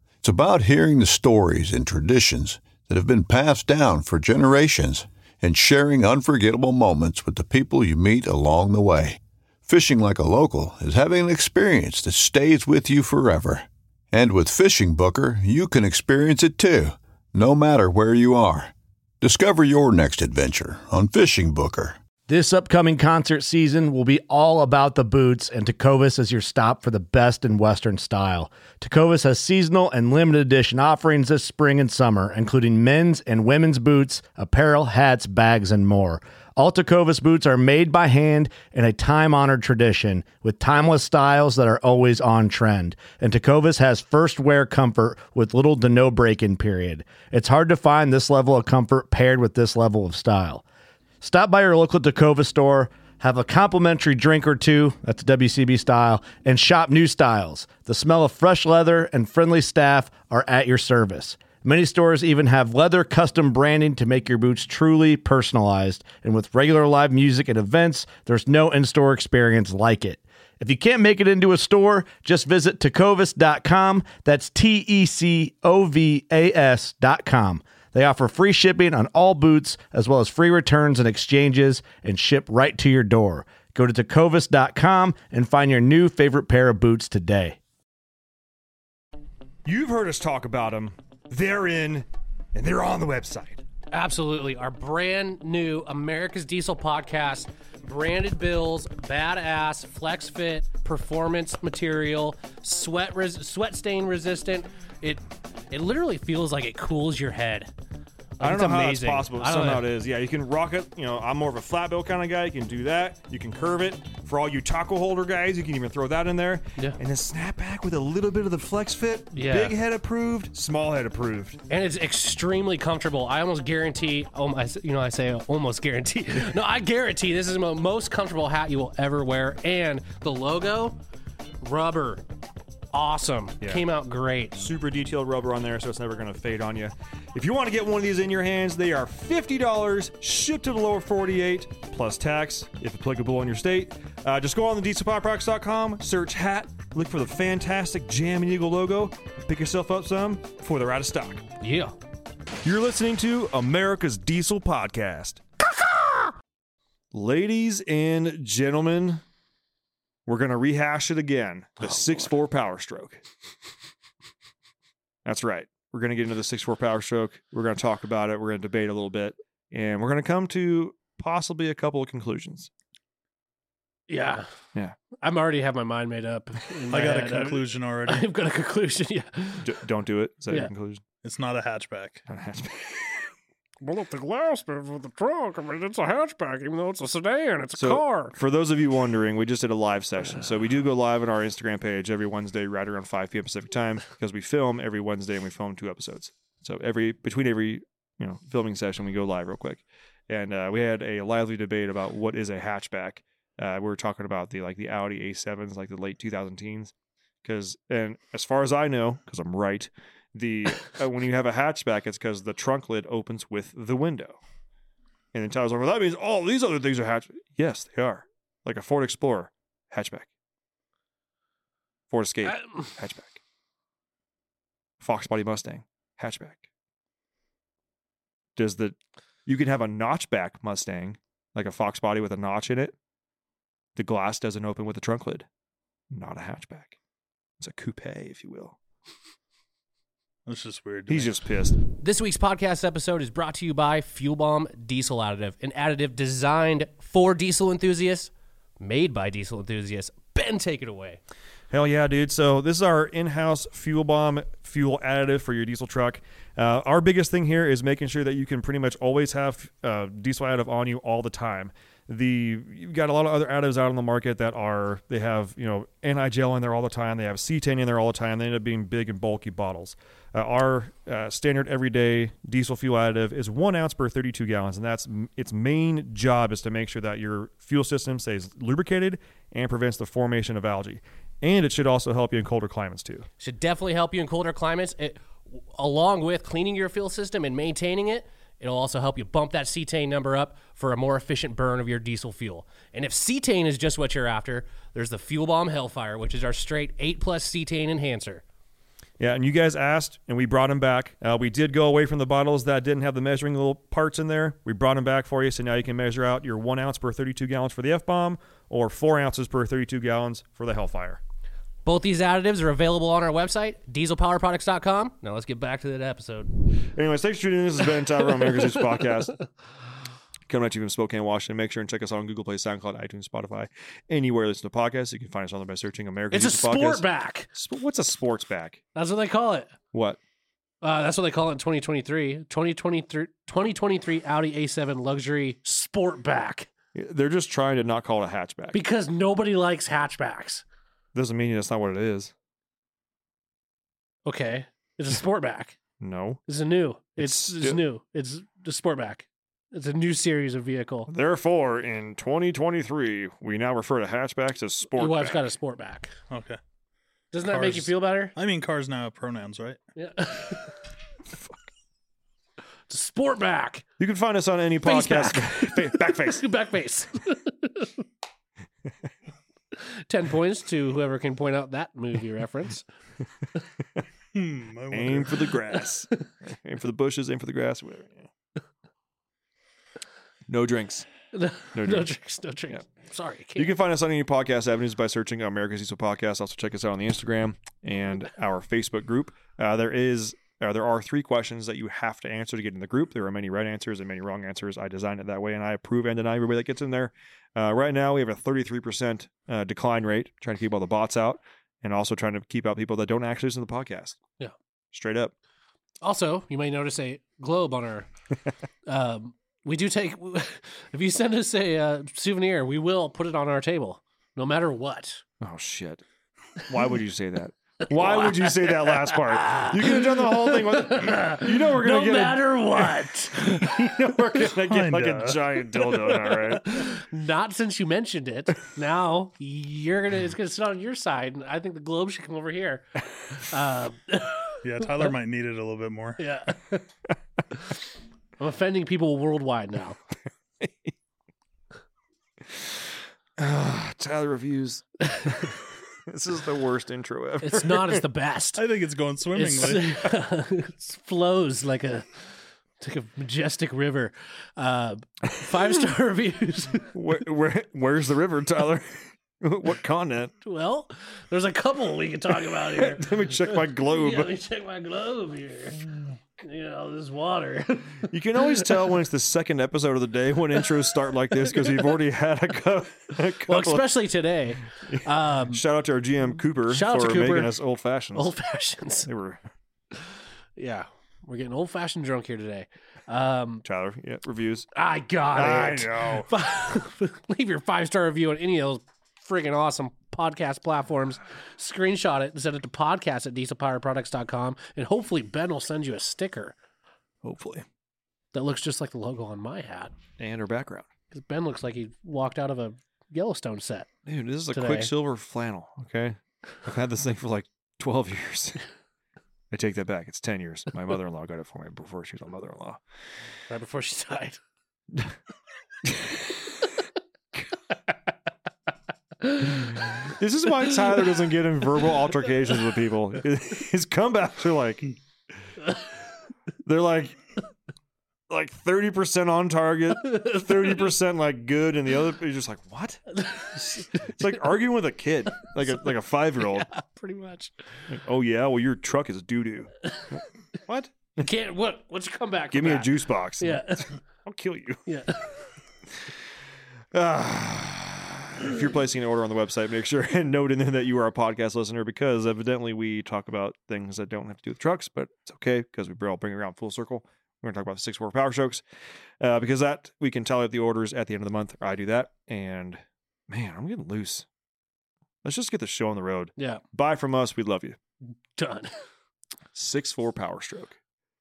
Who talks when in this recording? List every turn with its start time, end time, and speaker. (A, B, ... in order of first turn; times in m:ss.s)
0:00.2-0:22.0 A
0:22.3-0:50.6 B
0:51.2-1:27.6 B
1:29.6-1:33.6 C
1:33.9-1:47.7 D
1:48.4-1:49.9 D
1:48.4-2:01.6 C
1:59.3-1:59.7 D
2:01.7-2:11.0 D
2:11.6-2:12.2 D
2:12.9-2:14.6 D
2:14.6-2:31.4 C
2:31.6-2:32.0 D
2:32.6-2:35.4 C
2:37.1-2:39.2 C
2:40.3-2:43.2 C
2:41.8-2:42.3 D
2:45.2-2:52.7 C
2:54.1-2:54.5 D
2:55.2-2:59.7 D
2:56.9-2:58.3 E
2:59.6-3:01.0 C
3:01.2-3:02.2 E
3:02.3-3:03.3 C
3:03.8-3:08.4 D
3:07.8-3:26.9 C
3:27.4-3:34.4 C
3:35.3-3:40.3 C
3:42.1-3:43.4 C
3:42.5-3:42.8 D
3:45.0-3:46.6 C
3:48.6-3:53.0 C
3:54.0-3:55.5 C
3:56.1-3:57.0 C
3:57.6-3:58.8 C
4:00.5-4:01.4 E
4:01.1-4:01.8 C
4:01.9-4:11.2 D
4:11.7-4:43.3 C
4:43.4-4:58.4 D
4:59.2-5:11.2 C
5:11.8-5:16.5 D
5:16.9-5:19.4 C
5:20.5-5:28.8 C
5:26.3-5:27.5 D
5:29.0-5:29.7 D
5:29.9-5:30.2 C
5:30.8-5:36.7 D
5:37.0-5:38.8 C
5:38.7-5:40.6 D
5:41.2-5:42.3 C
5:44.3-5:45.8 D
5:46.0-5:46.4 C
5:46.5-5:51.1 D
5:47.2-5:47.8 C
5:51.1-5:55.4 C
5:55.0-5:56.2 D
5:56.3-5:56.6 E
5:57.3-5:58.3 D
5:57.5-5:59.8 E
6:00.0-6:00.8 D
6:02.9-6:03.9 D
6:04.0-6:06.4 C
6:04.8-6:08.0 D
6:09.7-6:12.8 D
6:14.3-6:15.4 E
6:14.9-6:18.3 C
6:20.5-6:21.1 C
6:21.3-6:23.7 D
6:21.8-6:22.1 C
6:23.6-6:44.2 C
6:44.9-6:45.3 C
6:46.0-6:48.1 D
6:48.9-6:55.2 D
6:55.4-6:56.0 C
6:56.6-7:06.9 C
6:58.0-7:04.0 D
7:04.7-7:05.4 E
7:06.1-7:15.0 D
7:14.6-7:16.2 E
7:16.2-7:16.8 D
7:18.4-7:20.0 D
7:23.4-7:25.6 C
7:25.1-7:25.4 D
7:26.1-7:28.0 C
7:27.4-7:28.6 D
7:28.6-7:29.9 E
7:29.3-7:36.9 D
7:36.9-7:40.3 C
7:40.4-7:48.6 D
7:42.6-7:44.3 C
7:48.1-7:54.0 C
7:51.3-7:51.9 D
7:53.5-7:55.6 D
7:54.9-7:58.3 C
7:56.7-7:57.5 D
7:58.2-7:59.1 D
7:59.1-7:59.4 C
7:59.9-8:03.6 D
8:03.6-8:04.7 C
8:04.8-8:16.6 D
8:05.3-8:06.3 C
8:17.2-8:17.6 C
8:18.3-8:19.9 D
8:20.2-8:20.9 C
8:21.1-8:23.9 D
8:24.1-8:28.6 C
8:24.5-8:24.9 D
8:29.5-8:32.8 C
8:33.5-8:34.4 D
8:35.8-8:36.3 C
8:39.2-8:39.8 D
8:40.1-8:44.9 C
8:46.6-8:47.2 C
8:48.3-8:56.7 C
8:50.1-8:50.9 D
8:53.2-8:54.1 D
8:56.4-8:57.7 D
8:57.9-9:01.3 C
9:01.2-9:04.0 D
9:02.5-9:04.9 C
9:04.9-9:05.4 D
9:06.9-9:18.6 C
9:19.2-9:24.3 C
9:25.2-9:27.8 C
9:28.1-9:28.8 D
9:29.6-9:30.8 C